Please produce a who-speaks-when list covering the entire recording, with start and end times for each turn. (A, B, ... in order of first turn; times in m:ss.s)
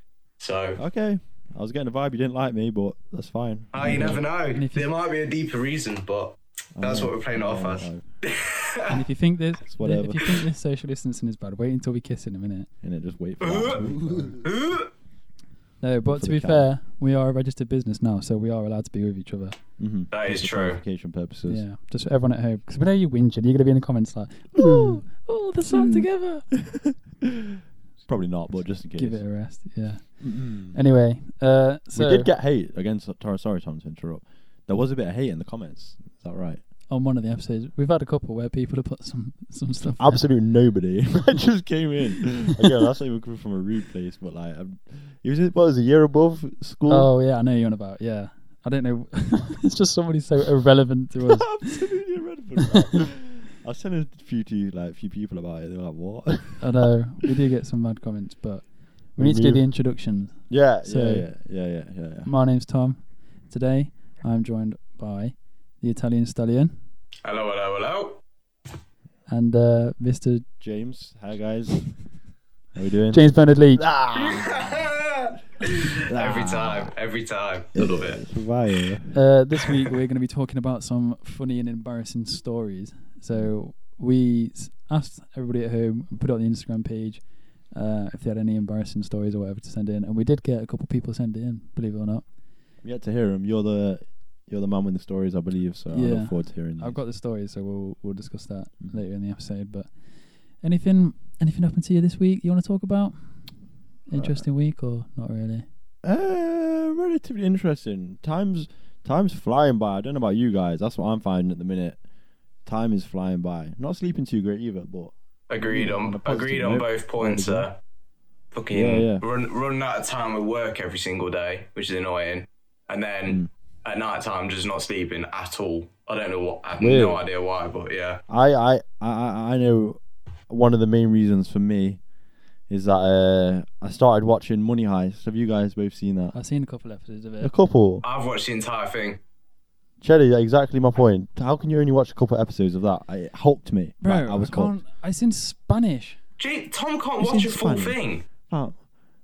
0:00.4-0:00.8 A
0:00.8-0:04.2 B
0:03.7-0:08.9 A
0:03.8-0:04.9 C
0:06.8-0:08.0 B
0:08.9-0:12.7 C
0:09.7-0:10.4 B
0:12.8-0:14.5 B
0:13.4-0:13.8 A
0:14.4-0:14.9 A
0:15.8-0:19.6 C
0:16.1-0:16.6 B
0:19.8-0:21.6 B
0:20.1-0:20.8 A
0:21.5-0:26.5 C
0:24.6-0:25.0 B
0:25.7-0:26.0 B
0:26.6-0:29.2 B
0:29.0-0:32.3 C
0:30.2-0:30.8 B
0:32.0-0:36.6 B
0:36.9-0:40.2 C
0:40.0-0:47.1 B
0:46.9-0:51.8 C
0:51.2-0:56.7 B
0:56.6-0:58.6 C
0:59.2-1:01.2 C
0:59.2-0:59.6 B
1:00.5-1:02.3 B
1:02.2-1:06.7 C
1:07.2-1:08.2 A
1:09.3-1:10.4 C
1:10.6-1:11.9 B
1:12.7-1:14.9 B
1:13.1-1:13.8 C
1:14.2-1:18.2 A
1:16.0-1:16.9 B
1:17.7-1:19.1 B
1:19.1-1:32.2 C
1:32.8-1:37.0 B
1:35.9-1:39.9 C
1:40.6-1:43.5 C
1:44.1-1:45.6 C
1:44.2-1:44.4 B
1:46.0-1:52.0 B
1:52.6-1:57.7 B
1:55.5-1:57.8 A
1:58.5-2:08.2 A
1:58.7-1:59.2 B
2:06.8-2:07.2 B
2:08.3-2:12.0 B
2:12.7-2:16.3 B
2:16.3-2:17.5 C
2:17.4-2:18.0 B
2:18.0-2:19.2 A
2:20.0-2:24.8 B
2:24.0-2:26.2 C
2:26.4-2:28.2 A
2:27.2-2:28.8 B